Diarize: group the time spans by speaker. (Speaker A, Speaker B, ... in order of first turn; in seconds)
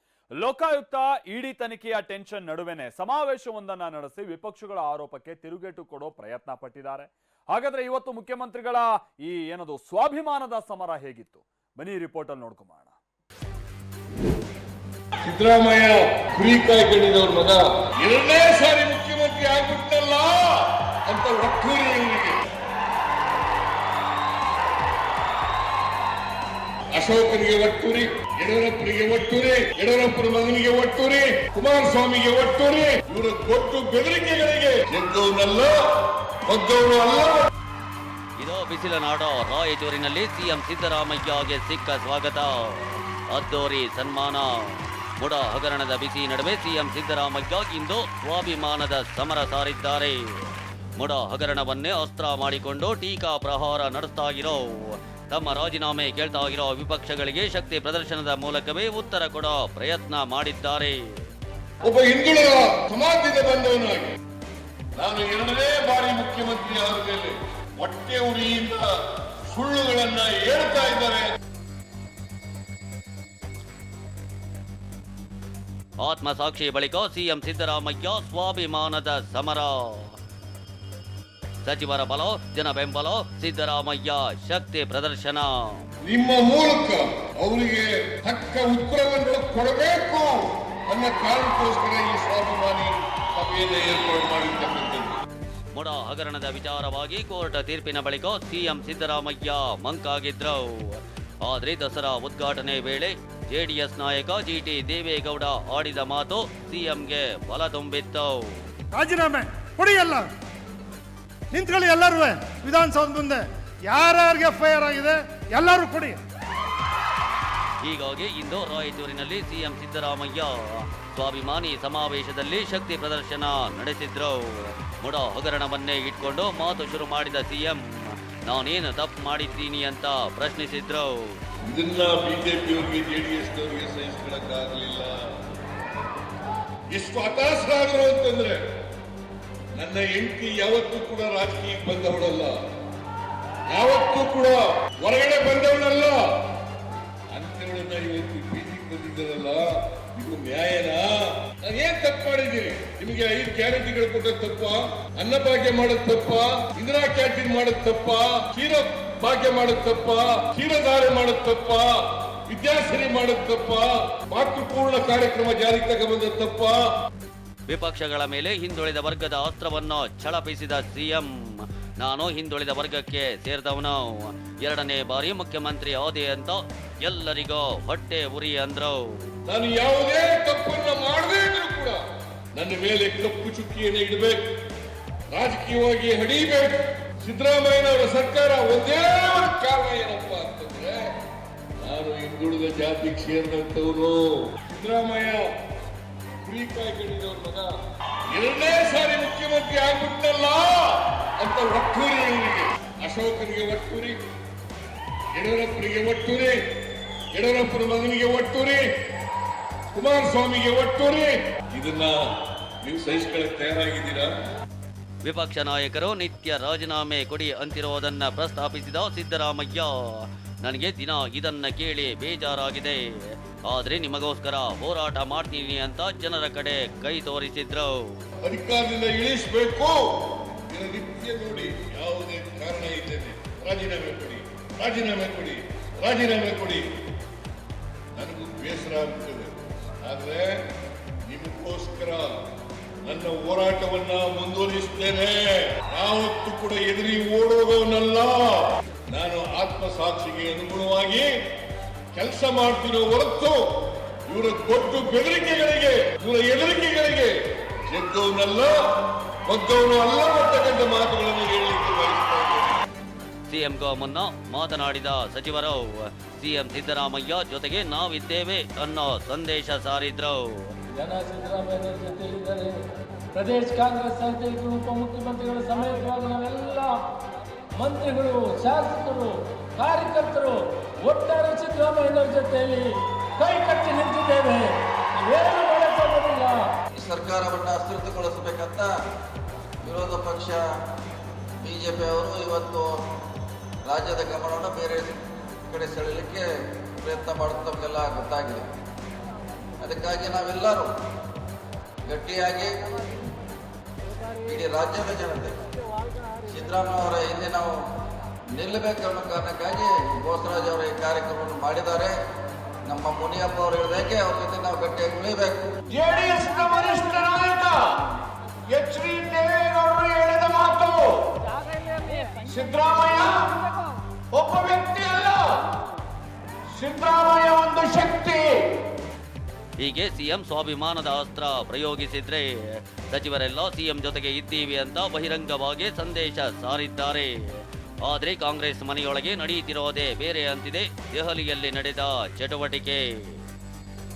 Speaker A: 0.4-12.9
Speaker B: 15.2-22.4, 26.9-35.8, 36.5-37.5, 61.8-64.2, 65.0-68.9, 69.5-71.3, 86.0-95.2, 131.7-135.1, 136.9-138.6, 139.8-142.6, 143.7-146.2, 147.3-161.9, 162.5-166.8, 179.4-182.0, 182.6-184.4, 185.3-191.0, 191.8-195.4, 196.4-197.7, 198.3-204.2, 205.3-206.6, 207.3-208.8, 209.9-212.2, 212.8-214.3, 228.4-236.8, 238.2-240.5, 241.3-242.3, 243.0-251.3, 252.1-253.7, 254.3-257.4, 257.9-258.8, 259.4-262.8, 316.0-317.5, 318.8-320.8, 326.9-327.3
Speaker C: 38.4-61.0, 76.0-80.2, 81.6-85.8, 95.7-108.7, 117.8-131.4, 167.7-179.0, 215.2-228.2, 263.5-270.7, 329.8-343.4
Speaker D: 108.9-110.3, 111.5-116.2
Speaker E: 270.9-272.7, 273.3-276.9, 277.8-286.6
Speaker F: 287.0-288.9, 289.8-290.6, 291.6-292.9, 293.8-295.1, 295.7-296.5, 297.0-298.7, 299.8-300.9, 302.1-302.7, 304.4-305.5, 306.5-307.8, 308.5-312.2, 312.9-315.8
Speaker G: 316.0-317.8, 318.7-321.0, 322.5-323.5, 324.3-325.4, 326.8-328.5